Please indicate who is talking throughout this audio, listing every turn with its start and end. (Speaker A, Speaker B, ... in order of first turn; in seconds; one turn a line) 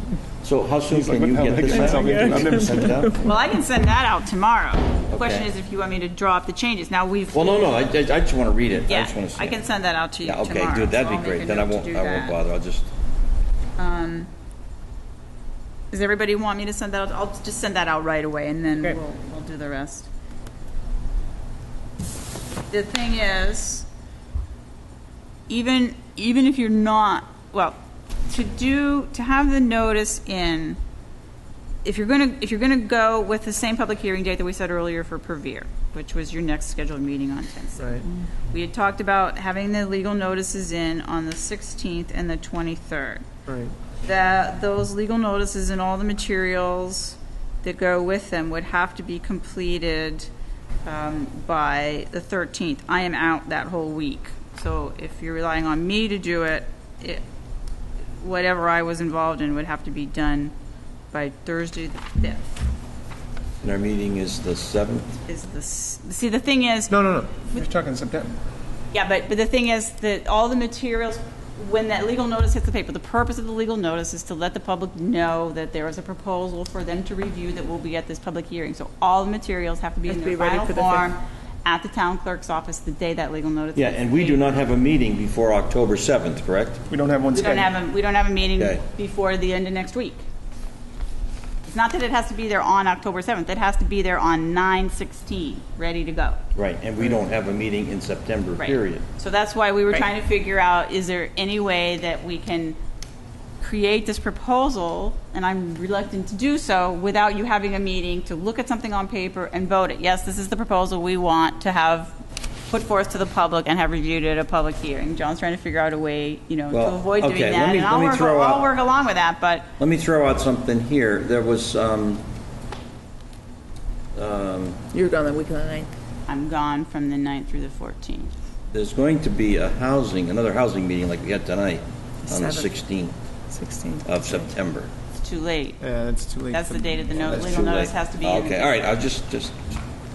Speaker A: 0.4-3.1
Speaker B: 0.9-3.2
Speaker C: 1.7-3.4
Speaker D: 3.2-7.8
Speaker A: 5.1-5.5
Speaker A: 7.3-9.6
Speaker D: 8.9-12.4
Speaker A: 10.2-12.9
Speaker D: 13.8-14.3
Speaker D: 15.9-20.1
Speaker D: 22.7-23.9
Speaker D: 25.5-30.8
Speaker D: 31.8-43.2
Speaker B: 43.5-43.7
Speaker D: 44.0-50.3
Speaker D: 50.9-57.2
Speaker D: 58.2-60.5
Speaker D: 61.1-62.5
Speaker A: 63.6-65.1
Speaker D: 65.3-67.6
Speaker B: 66.9-68.3
Speaker D: 68.9-84.4
Speaker C: 80.0-81.1
Speaker A: 83.7-86.8
Speaker B: 86.9-87.7
Speaker D: 87.3-90.2
Speaker A: 88.6-88.8
Speaker D: 91.6-96.4
Speaker A: 96.5-99.0
Speaker D: 98.6-102.8
Speaker D: 103.6-112.1
Speaker D: 112.7-119.7
Speaker A: 116.7-118.7
Speaker A: 119.8-122.2
Speaker A: 124.1-124.8
Speaker C: 124.9-125.9
Speaker D: 126.3-128.3
Speaker A: 128.7-133.2
Speaker C: 132.3-132.7
Speaker C: 133.5-134.5
Speaker A: 134.0-134.9
Speaker D: 135.2-135.8
Speaker B: 135.8-137.5
Speaker D: 136.5-138.7
Speaker A: 137.1-139.6